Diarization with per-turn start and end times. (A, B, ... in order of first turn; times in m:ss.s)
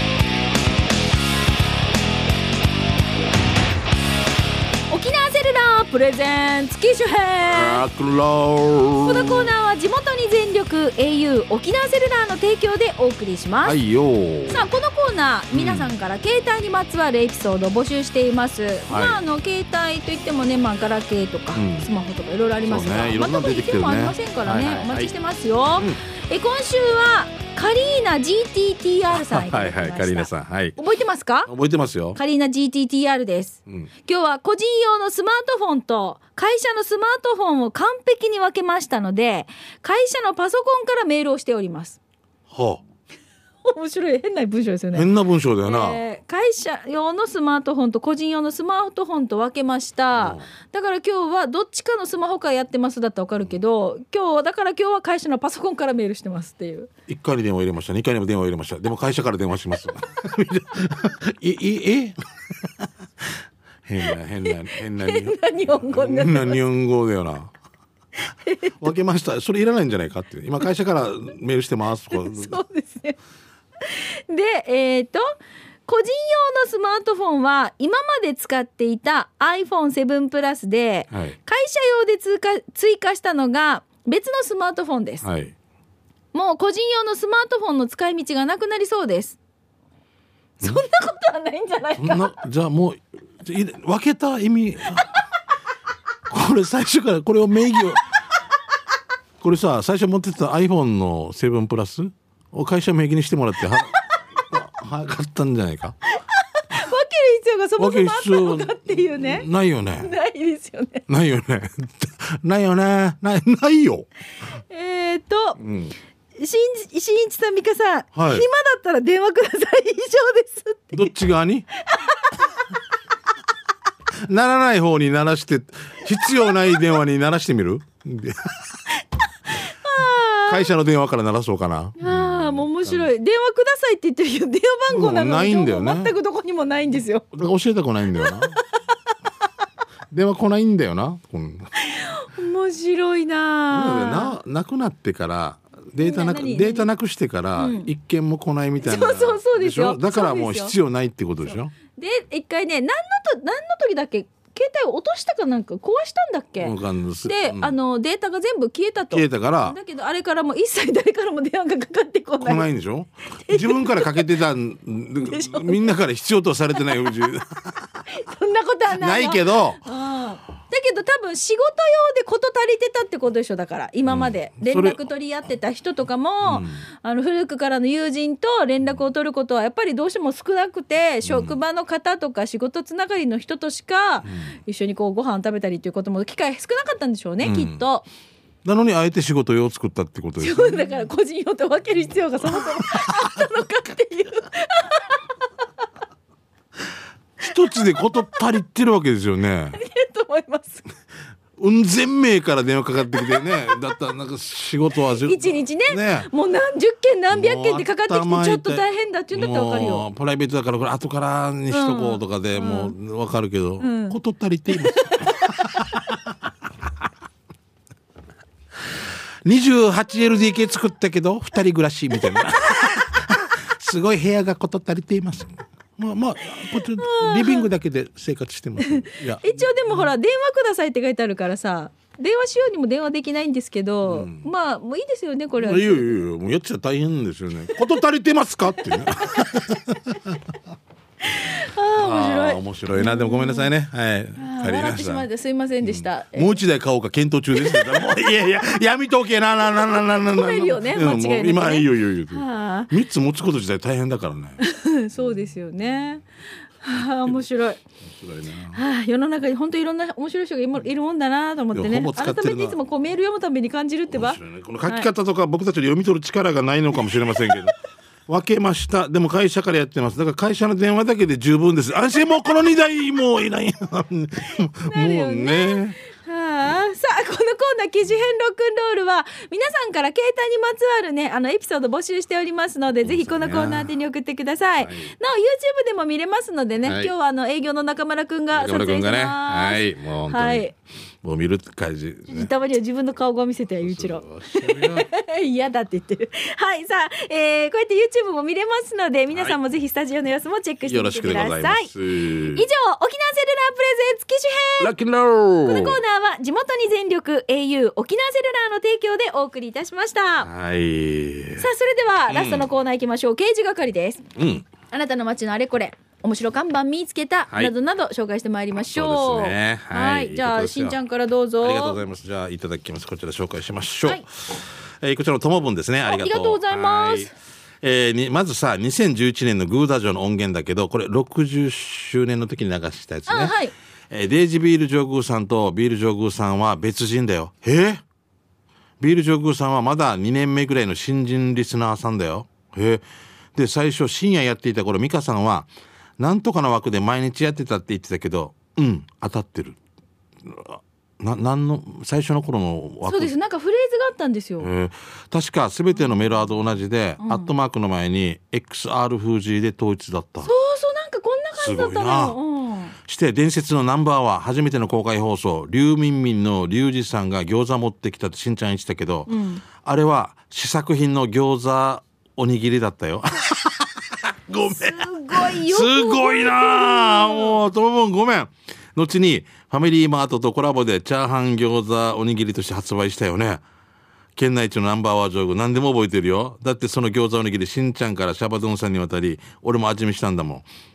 0:04.9-0:07.8 A
0:07.4-0:09.5 B
0:09.0-0:13.8 A
0:13.6-0:14.7 B
0:14.5-0:31.5 A
0:15.5-0:15.9 B
0:18.9-0:19.2 B
0:21.5-0:21.9 B
0:22.6-0:25.1 B
0:29.1-0:30.8 B
0:31.4-0:32.2 B
0:32.1-0:42.0 A
0:42.5-0:42.8 B
0:43.6-0:45.1 A
0:44.9-0:46.0 B
0:45.6-0:56.9 A
0:50.2-0:50.4 B
0:57.1-1:03.3 B
1:03.8-1:07.5 B
1:04.5-1:06.6 A
1:08.4-1:08.8 A
1:08.8-1:12.6 B
1:12.1-1:13.2 A
1:13.8-1:15.2 A
1:15.9-1:25.2 A
1:21.1-1:21.4 B
1:25.2-1:25.5 B
1:26.3-1:29.4 A
1:30.6-1:32.3 A
1:32.0-1:35.1 B
1:36.3-1:38.0 B
1:39.4-1:44.0 B
1:43.8-1:44.2 A
1:44.5-1:46.0 B
1:46.1-1:49.4 A
1:47.8-1:50.1 B
1:50.0-1:51.0 A
1:51.1-1:54.1 B
1:54.7-1:55.6 A
1:55.6-1:55.9 B
1:56.4-2:01.1 A
1:58.1-1:58.5 B
2:00.9-2:01.6 B
2:01.8-2:02.5 A
2:04.2-2:08.8 B
2:09.6-2:10.7 A
2:10.5-2:13.1 B
2:12.0-2:17.3 A
2:14.9-2:16.1 B
2:17.3-2:18.6 B
2:18.2-2:18.6 A
2:20.1-2:21.7 B
2:21.8-2:24.4 A
2:23.7-2:31.7 B
2:26.0-2:26.9 A
2:27.6-2:27.9 A
2:28.8-2:30.7 A
2:31.9-2:42.7 A
2:36.6-2:37.7 B
2:39.1-2:39.8 B
2:42.4-2:48.0 B
2:43.3-2:44.3 A
2:45.2-2:45.9 A
2:48.1-3:08.0 A
2:48.9-2:49.8 B
2:54.1-2:55.0 B
2:56.4-2:56.8 B
3:01.2-3:01.6 B
3:04.2-3:04.5 B
3:07.4-3:07.8 B
3:08.6-3:10.9 B
3:10.4-3:15.2 A
3:12.5-3:13.4 B
3:17.4-3:19.8 B
3:19.7-3:20.8 A
3:21.6-3:26.3 B
3:23.1-3:23.8 A
3:25.1-3:30.0 A
3:27.3-3:36.3 B
3:31.7-3:32.9 A
3:33.8-3:34.2 A
3:34.7-3:35.2 A
3:39.4-3:50.1 B
3:47.0-3:47.7 A
3:48.8-3:56.2 A
3:54.0-3:54.5 B
3:55.6-4:00.4 B
4:01.2-4:03.7 A
4:01.9-4:05.3 B
4:04.4-4:06.6 A
4:05.8-4:14.6 B
4:07.5-4:08.3 A
4:09.9-4:12.9 A
4:14.6-4:16.2 A
4:16.8-4:17.8 A
4:17.0-4:17.4 B
4:18.0-4:18.8 B
4:18.7-4:25.1 A
4:21.7-4:22.8 B
4:24.1-4:27.8 B
4:28.3-4:36.0 B
4:34.9-4:50.7 A
4:43.0-4:43.9 B
4:44.8-4:45.1 B
4:46.8-4:47.1 B
4:48.5-4:50.7 B
4:51.2-4:52.5 B
4:52.3-5:01.9 A
4:53.8-4:55.1 B
4:59.3-4:59.6 B
5:00.8-5:02.6 B
5:02.4-5:04.9 A
5:04.8-5:06.0 B
5:05.6-5:10.5 A
5:10.4-5:11.7 B
5:11.6-5:14.2 A
5:12.3-5:12.7 B
5:14.4-5:14.7 B
5:14.9-5:22.0 A
5:18.9-5:21.0 B
5:21.6-5:33.6 B
5:26.0-5:27.3 A
5:33.3-5:33.7 A
5:34.1-5:38.0 B
5:39.0-5:49.8 B
5:50.4-5:53.3 B
5:53.0-5:54.7 A
5:54.6-6:00.5 B
5:57.2-5:57.5 A
6:00.4-6:02.9 A
6:01.5-6:02.4 B
6:03.0-6:23.6 B
6:09.3-6:09.6 A
6:14.6-6:17.6 A
6:24.4-6:30.7 B